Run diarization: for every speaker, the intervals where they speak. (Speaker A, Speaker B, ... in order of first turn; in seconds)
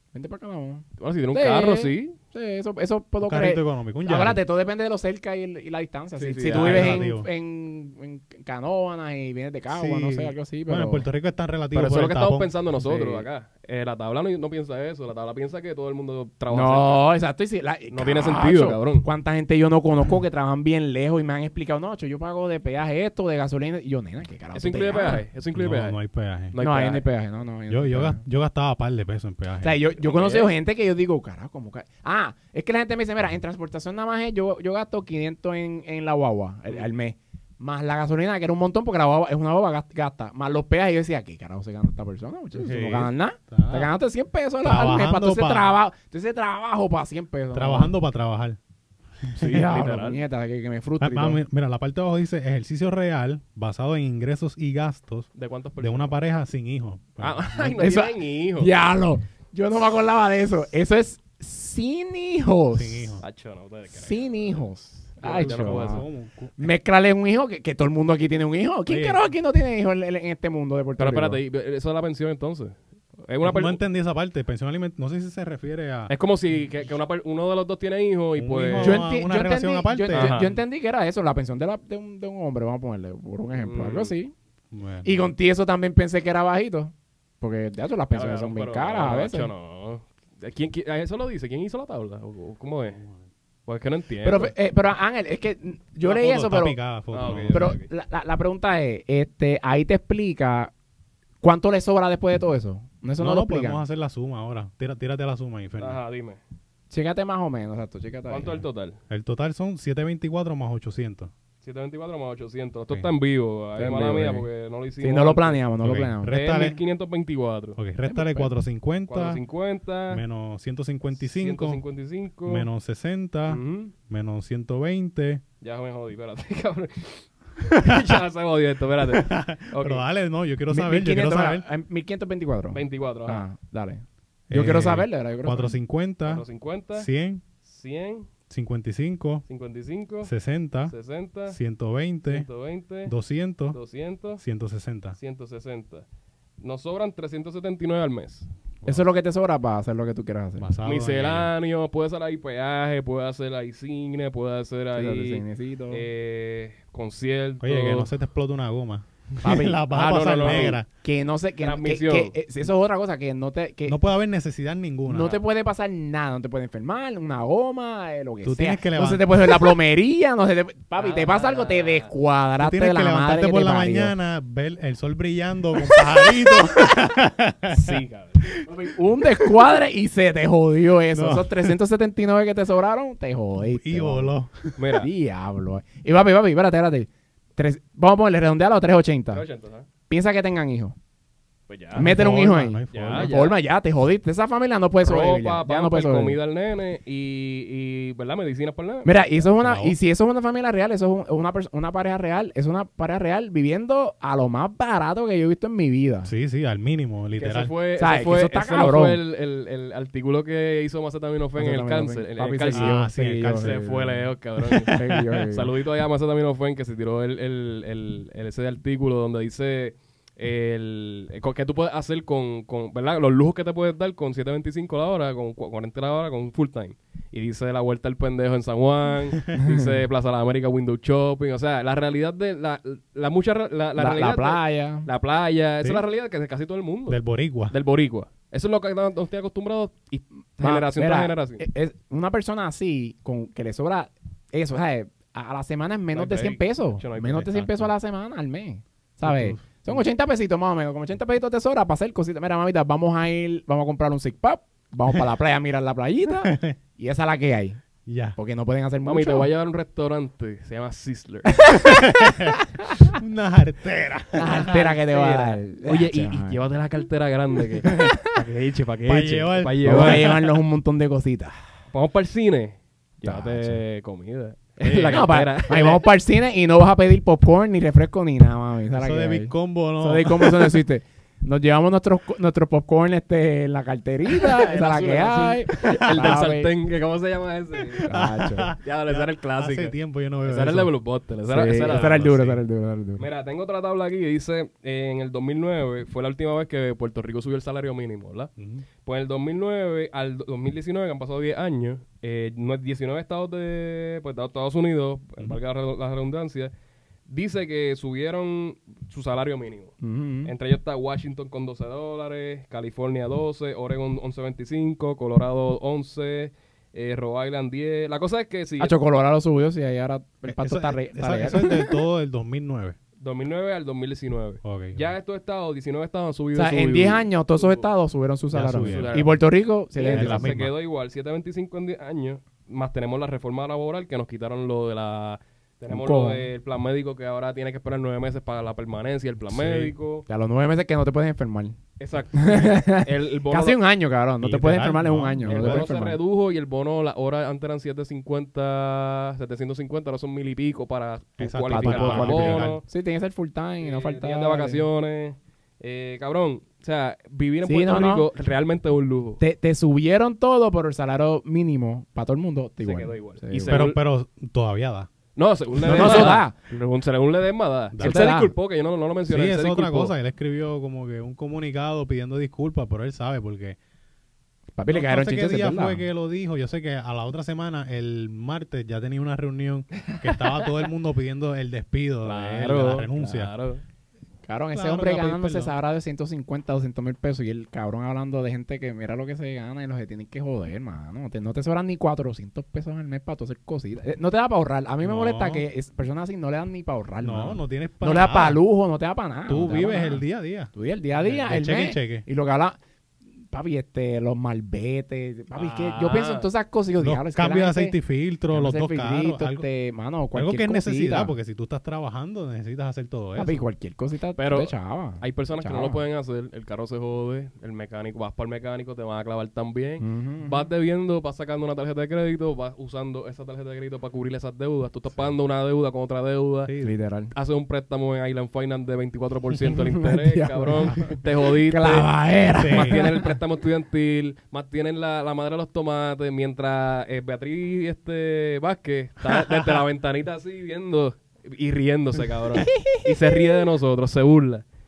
Speaker A: 0.1-11.1, 12.8-13.3, 16.5-25.2, 26.6-28.2, 29.6-47.9, 49.4-51.4, 57.8-63.2, 63.9-66.0, 66.6-71.4, 78.8-84.3, 85.0-89.5, 94.2-96.8, 97.5-100.7, 101.4-103.8, 106.9-108.6, 113.8-114.5, 115.0-116.3, 118.1-118.5, 130.7-135.8, 148.8-150.7, 154.9-156.0, 159.4-164.0, 165.1-174.1, 175.9-176.9, 178.7-184.3, 185.0-189.4, 190.1-191.0, 191.9-196.4, 199.0-206.3, 208.0-209.2, 211.6-214.2, 214.8-215.7, 229.6-229.9, 234.0-235.1, 240.6-257.8, 258.4-259.5, 261.7-263.1, 264.3-266.6, 267.8-268.4, 269.8-271.6, 273.2-273.8, 274.8-286.7, 288.0-288.7, 291.5-293.3, 310.0-310.5, 318.8-322.0, 326.5-330.6, 335.9-336.4, 340.3-341.8, 342.4-346.2, 351.7-354.9, 357.6-358.3, 359.4-363.8, 365.8-366.6, 368.0-368.5, 374.8-376.0, 384.5-402.8, 403.5-408.0, 408.5-411.3, 413.4-416.0, 420.0-420.6, 426.8-427.3, 429.8-433.4, 442.6-443.6
Speaker B: 1.0-2.2, 6.2-7.1, 11.7-17.1, 17.9-19.1, 24.5-26.0, 26.5-27.0, 30.0-30.5, 49.4-50.2, 55.4-56.1, 57.2-58.7, 63.2-64.6, 65.2-66.1, 71.0-73.8, 76.1-79.0, 80.1-80.5, 83.6-84.1, 88.1-93.0, 93.7-94.5, 97.1-97.9, 105.8-106.4, 108.3-109.0, 111.6-115.6, 116.3-117.8, 119.1-120.2, 121.2-122.7, 123.5-123.9, 125.6-130.0, 132.7-133.4, 136.2-137.1, 137.6-138.3, 139.5-140.3, 140.9-141.6, 142.3-143.1, 143.7-144.4, 145.2-146.1, 146.6-148.5, 150.8-158.1, 160.1-160.8, 161.6-162.3, 171.0-172.1, 177.7-178.5, 184.8-185.1, 189.3-189.9, 191.7-192.2, 192.9-193.6, 195.0-199.2, 207.4-213.0, 213.6-237.2, 237.7-241.6, 246.1-247.8, 259.1-261.9, 264.6-270.5, 271.9-276.0, 284.4-288.1, 288.8-292.4, 293.2-298.5, 299.1-306.7, 307.3-318.9, 323.2-327.9, 328.8-329.4, 329.9-340.2, 342.0-343.8, 345.5-352.8, 353.8-359.4, 362.8-364.0, 365.4-370.1, 382.2-383.8, 405.6-406.5, 414.4-426.7, 427.3-432.1, 432.7-444.6
Speaker C: 3.2-4.4, 6.5-7.3, 9.7-12.5, 25.6-26.6, 27.7-29.8, 42.6-43.9, 44.6-45.8, 47.5-48.6, 49.2-49.8, 51.0-57.9, 62.7-63.2, 65.2-66.7, 68.9-69.2, 73.4-76.1, 78.4-80.5, 84.7-85.3, 96.0-97.8, 103.2-106.0, 109.1-111.3, 115.8-116.8, 117.8-119.4, 120.1-121.8, 122.5-125.4, 127.7-128.2, 129.1-131.7, 134.5-137.4, 138.5-139.4, 140.2-140.9, 141.5-142.5, 143.1-143.8, 144.4-145.2, 150.6-151.5, 157.6-160.9, 163.9-165.4, 168.4-169.7, 172.6-178.0, 181.1-181.8, 183.6-184.8, 191.9-193.3, 199.6-200.0, 206.2-207.7, 212.7-213.8, 214.7-215.4, 237.1-237.8, 249.2-250.0, 256.4-256.8, 258.1-258.4, 261.8-264.7, 269.1-270.4, 278.9-280.8, 286.1-286.4, 288.1-290.9, 291.9-292.6, 298.6-298.9, 320.4-323.0, 324.6-325.1, 328.5-329.3, 330.1-330.7, 339.5-339.9, 344.4-346.0, 351.4-352.8, 363.7-365.1, 365.8-366.5, 367.9-368.3, 369.3-373.8, 374.9-383.5, 384.7-385.7, 395.0-395.6, 397.2-398.6, 399.5-402.2, 407.0-409.7, 410.4-413.6, 426.7-427.0, 432.6-433.0